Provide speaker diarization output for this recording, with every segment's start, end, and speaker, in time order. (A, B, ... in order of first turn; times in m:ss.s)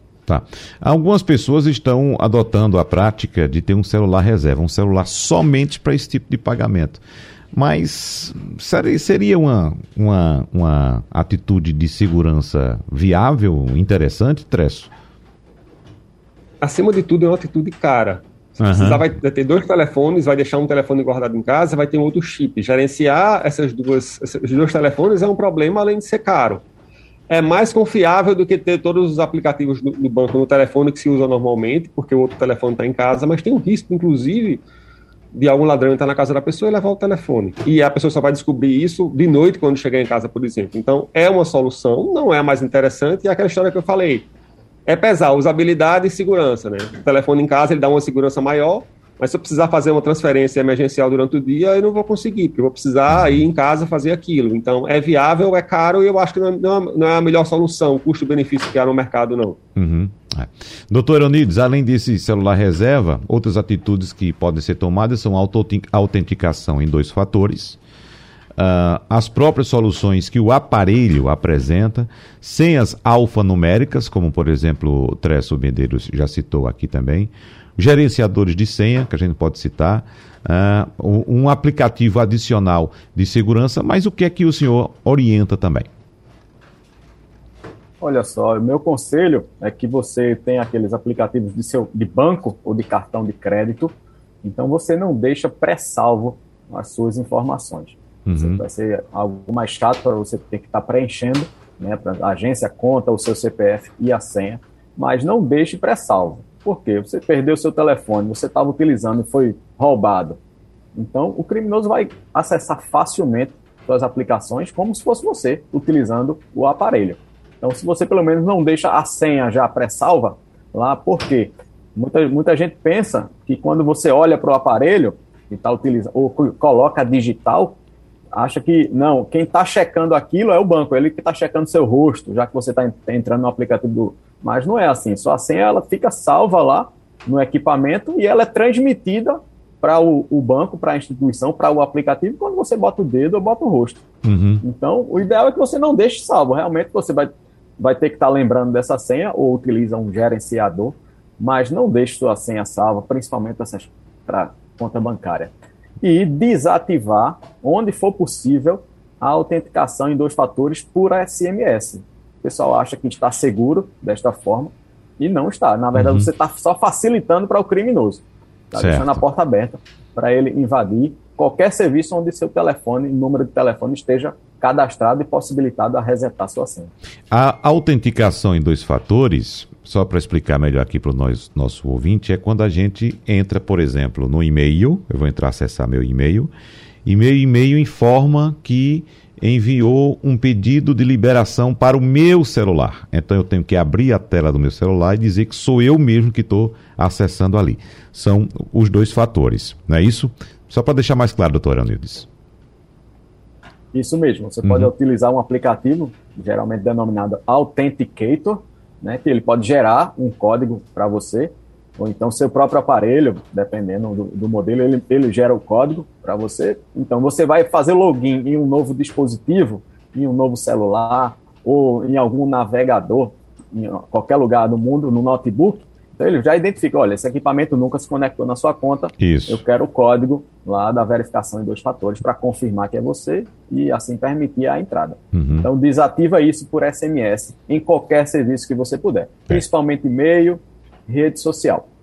0:00.3-0:07.0 A
0:07.5-0:14.9 A
0:16.6-0:26.6 B
0:18.6-0:19.0 A
0:27.3-0:34.6 B
0:35.3-0:44.3 B
0:44.9-0:59.6 B
0:53.1-0:53.4 A
0:59.8-1:07.8 A
1:08.6-1:25.9 A
1:28.0-1:50.4 C
1:38.3-1:38.6 A
1:51.0-2:07.8 C
2:08.3-2:24.0 C
2:24.2-2:24.6 A
2:24.6-2:56.9 C
2:46.0-2:46.3 A
2:48.8-2:49.2 A
2:57.3-3:06.5 A
3:07.0-3:22.3 A
3:23.9-4:01.9 C
3:24.6-3:24.9 A
3:49.2-3:49.6 A
3:55.3-3:55.7 A